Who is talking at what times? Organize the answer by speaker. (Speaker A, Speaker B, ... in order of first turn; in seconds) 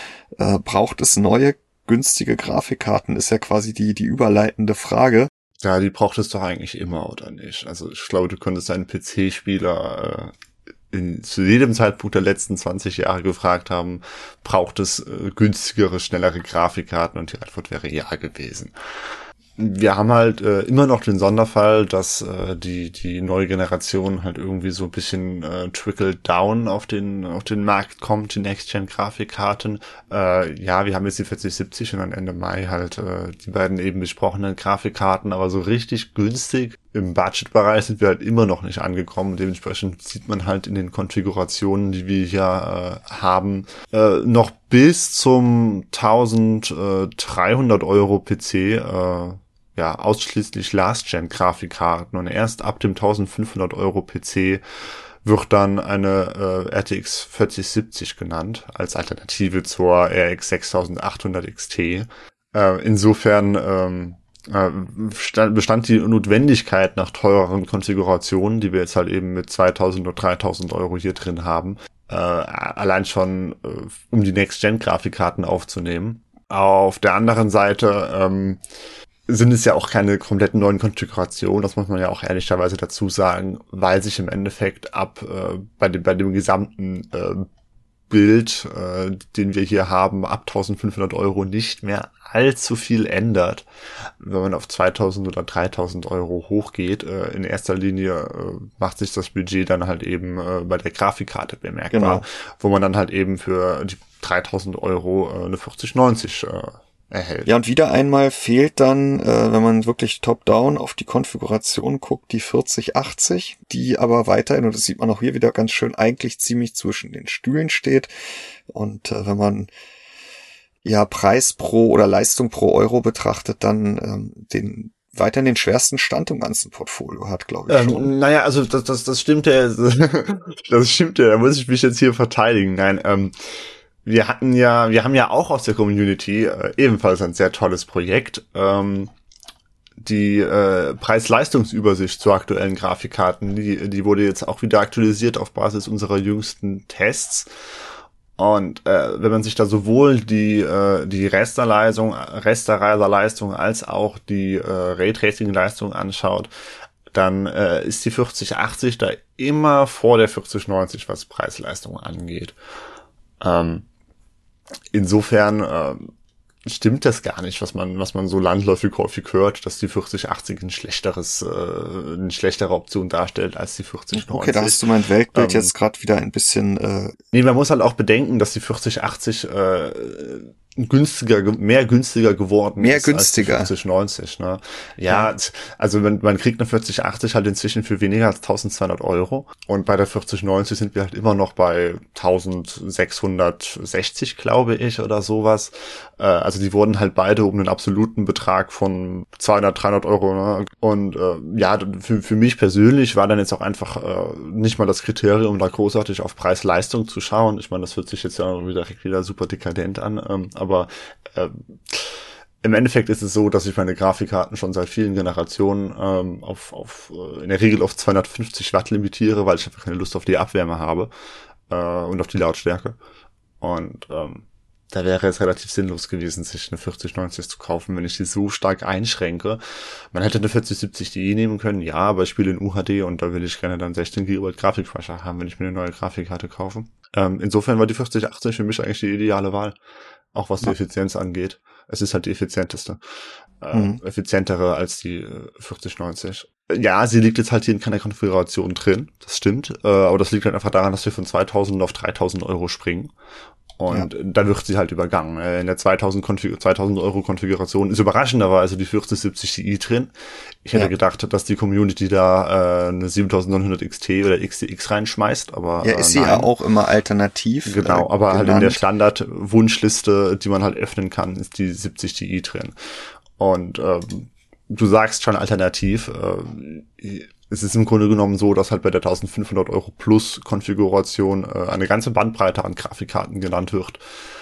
Speaker A: 0.4-5.3, 101.9-102.2, 107.5-118.1, 118.7-119.7, 120.8-128.1, 174.1-177.1, 182.8-183.7, 243.7-244.0, 265.8-268.8
Speaker B: 5.6-10.3, 10.9-18.7, 19.6-54.6, 55.2-78.6, 79.3-87.5, 88.1-93.7, 94.2-107.5, 127.7-133.3, 134.0-139.1, 140.0-147.5, 148.4-156.5, 157.1-162.5, 163.4-163.9, 164.9-166.1, 166.7-175.7, 177.3-221.1, 221.7-223.0, 223.6-229.6, 230.1-239.8, 240.3-243.0, 243.6-253.1, 253.8-260.1, 260.6-266.5, 267.7-272.7, 273.4-284.0